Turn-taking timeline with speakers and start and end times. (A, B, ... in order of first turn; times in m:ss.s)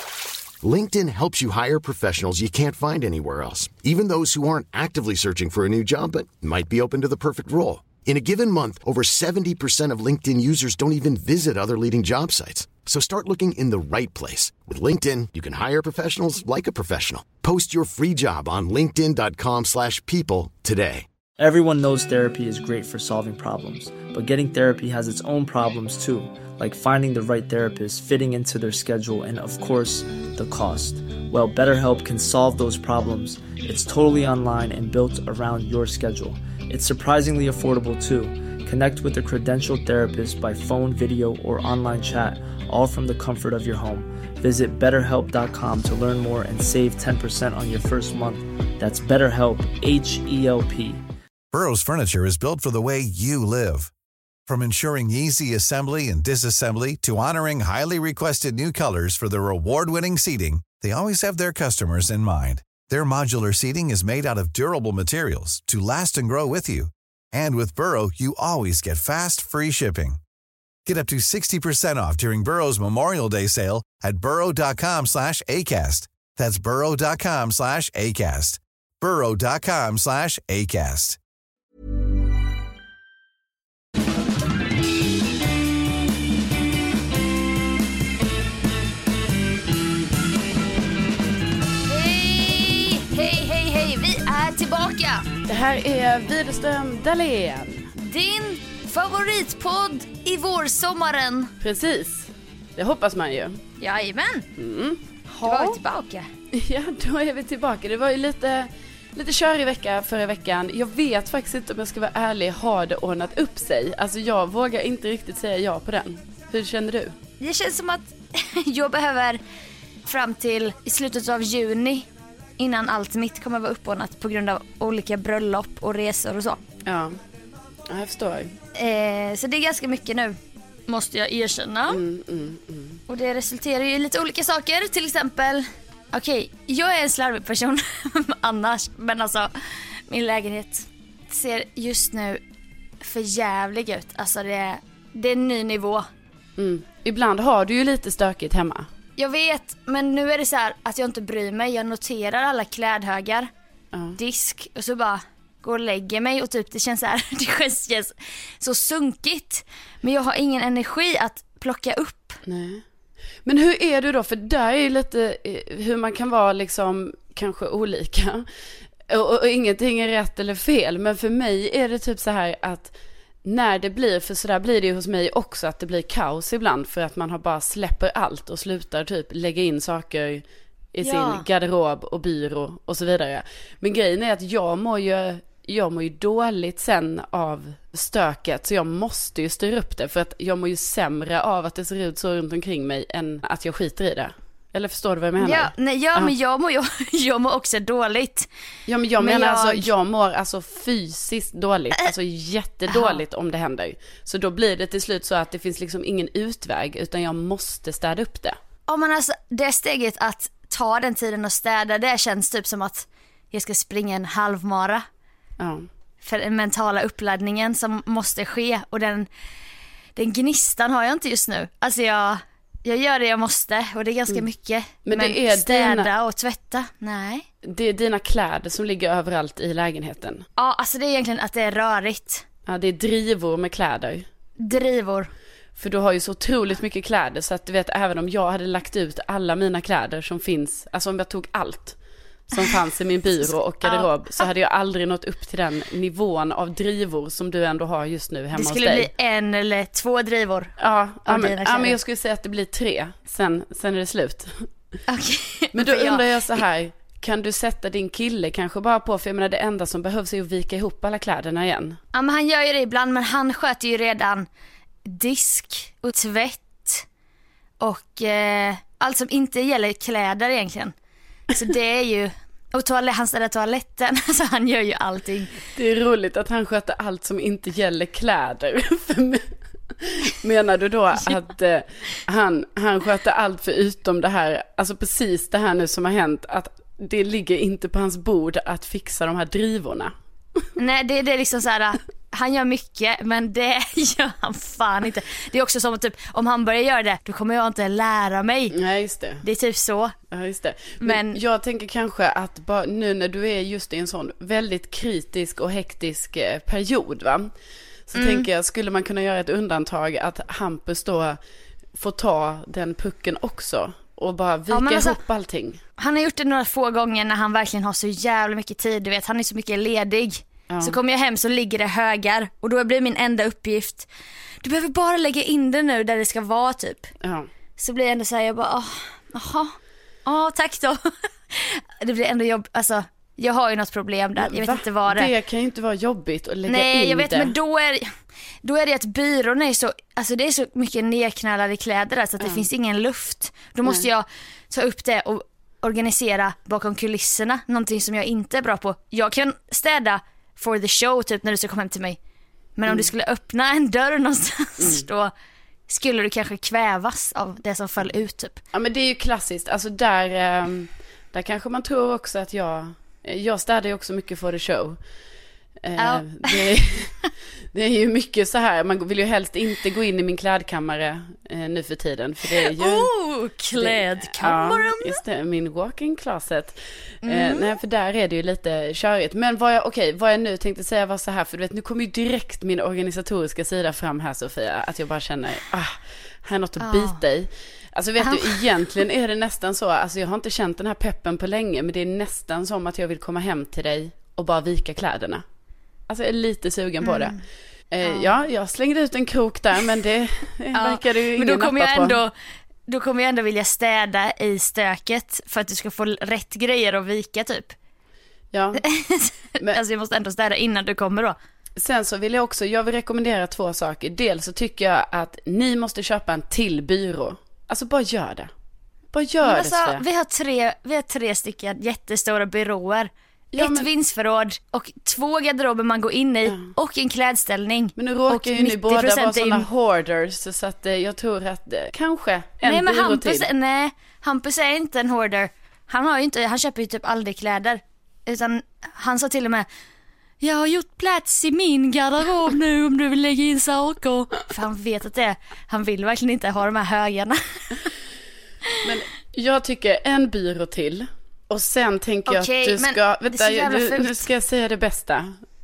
0:00.6-0:21.1 A
0:21.4-0:51.0 B
0:51.5-0:53.9 C
0:54.5-1:10.2 C
1:10.9-1:21.2 C
1:31.9-1:35.3 D
1:35.5-1:37.9 E
1:38.0-1:41.5 D
1:41.6-1:43.6 E
1:43.8-1:44.5 D
1:44.6-1:45.8 E
1:45.4-1:46.3 D
1:46.5-1:57.2 E
1:57.4-1:59.4 D
2:00.1-2:02.1 D
2:02.6-2:06.6 D
2:06.9-2:07.2 E
2:07.9-2:08.6 E
2:08.8-2:10.4 D
2:10.9-2:12.0 D
2:11.9-2:13.0 E
2:13.1-2:22.4 D
2:23.0-2:26.1 D
2:26.6-2:28.9 E
2:29.2-2:33.5 D
2:33.9-2:34.2 E
2:34.2-2:42.4 D
2:42.5-2:42.8 E
2:43.4-2:48.5 E
2:49.1-2:52.9 E
2:53.4-3:00.4 E
3:00.9-3:16.3 E
3:01.0-3:01.4 D
3:15.4-3:18.5 D
3:18.9-3:28.6 E
3:19.2-3:19.9 D
3:22.9-3:23.2 D
3:28.9-3:35.0 D
3:35.6-3:35.9 E
3:36.2-3:39.3 D
3:40.2-3:47.5 D
3:45.1-3:46.1 E
3:47.6-3:50.5 E
3:50.6-3:52.4 D
3:52.7-3:54.3 E
3:54.6-3:55.3 D
3:55.8-4:02.0 E
4:02.5-4:09.1 E
4:03.3-4:04.5 D
4:08.6-4:10.8 D
4:10.8-4:14.7 E
4:11.3-4:12.0 D
4:15.1-4:16.2 D
4:15.8-4:22.0 E
4:22.1-4:24.5 D
4:25.0-4:27.0 D
4:27.8-4:30.9 D
4:31.5-4:35.6 D
4:35.8-4:39.5 E
4:40.0-4:50.1 E
4:50.8-4:58.8 D
4:58.7-4:59.4 E
4:59.4-5:00.2 D
5:00.3-5:07.5 E
5:01.0-5:01.4 D
5:08.1-5:11.4 E
5:08.2-5:08.5 D
5:12.0-5:15.8 E
5:14.7-5:15.2 D
5:16.0-5:24.1 D
5:20.7-5:21.0 E
5:24.6-5:27.1 D
5:27.2-5:27.5 E
5:27.8-5:35.3 D
5:34.4-5:37.5 E
5:36.7-5:52.2 D
5:42.4-5:42.7 E
5:52.8-5:55.3 D
5:54.8-5:55.1 E
5:55.9-5:58.6 D
5:58.7-6:05.0 E
6:05.8-6:07.2 E
6:06.0-6:06.7 D
6:07.7-6:13.1 E
6:12.6-6:15.2 D
6:13.8-6:35.4 E
6:17.2-6:17.7 D
6:26.8-6:27.2 D
6:28.2-6:28.6 D
6:36.1-6:37.4 E
6:37.0-6:37.4 D
6:37.9-6:42.2 E
6:38.0-6:38.3 D
6:40.7-6:42.3 D
6:42.9-6:47.8 D
6:48.5-6:48.8 E
6:48.8-6:51.4 D
6:51.8-6:58.5 E
6:59.1-7:00.0 E
6:59.4-7:09.7 D
7:03.6-7:03.9 E
7:06.5-7:06.7 E
7:08.0-7:13.5 E
7:12.6-7:19.7 D
7:20.4-7:27.9 D
7:28.8-7:35.4 E
7:32.3-7:34.3 D